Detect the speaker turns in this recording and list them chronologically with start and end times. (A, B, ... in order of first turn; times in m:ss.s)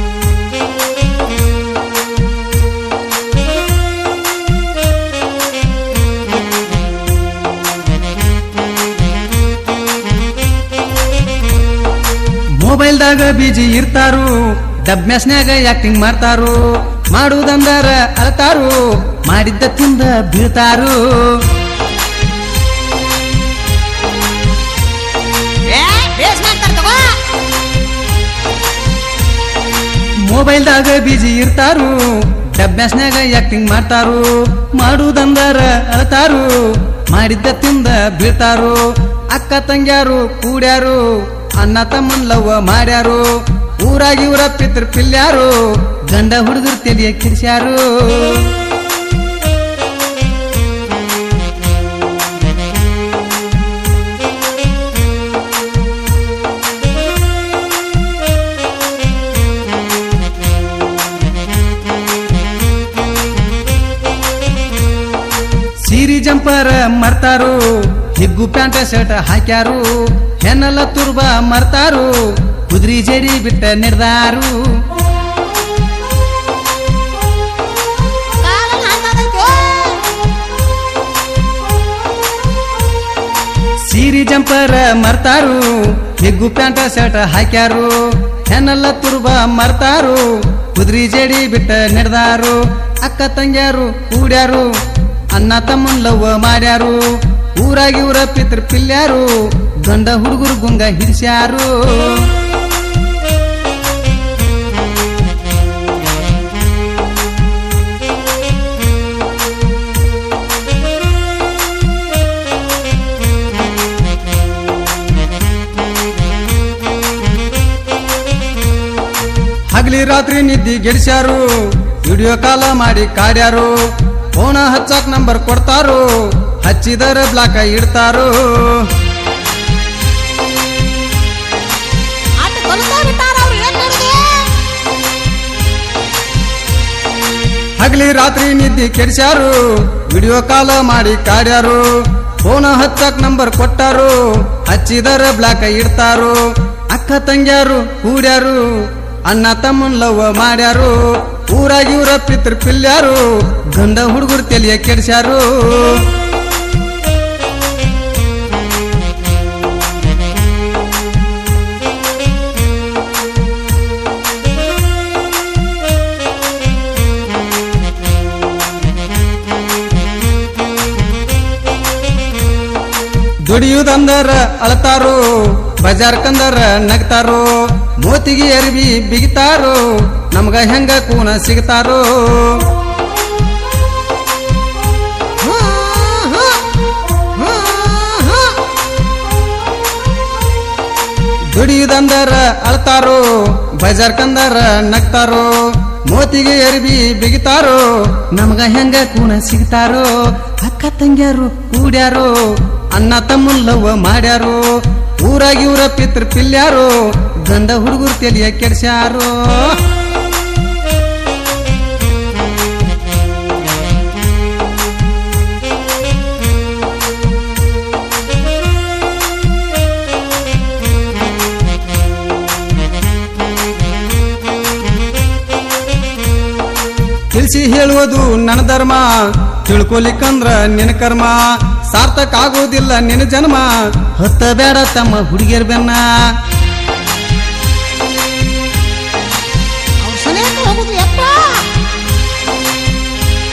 0:12.6-0:21.4 A
0:25.6-0:27.2 B
0:30.2-0:48.6 A
1:05.8-1:14.8 A
1:18.4-1:20.2 B
1:23.8-1:34.7 A
1:35.3-1:42.3 A
1:59.7-2:03.8 A
2:04.3-2:08.9 A
2:12.4-2:14.6 B
2:17.8-2:36.1 A
2:53.5-3:02.7 A
3:05.4-3:08.6 B
3:11.5-3:29.8 A
3:47.3-3:56.2 A
4:00.0-4:01.8 B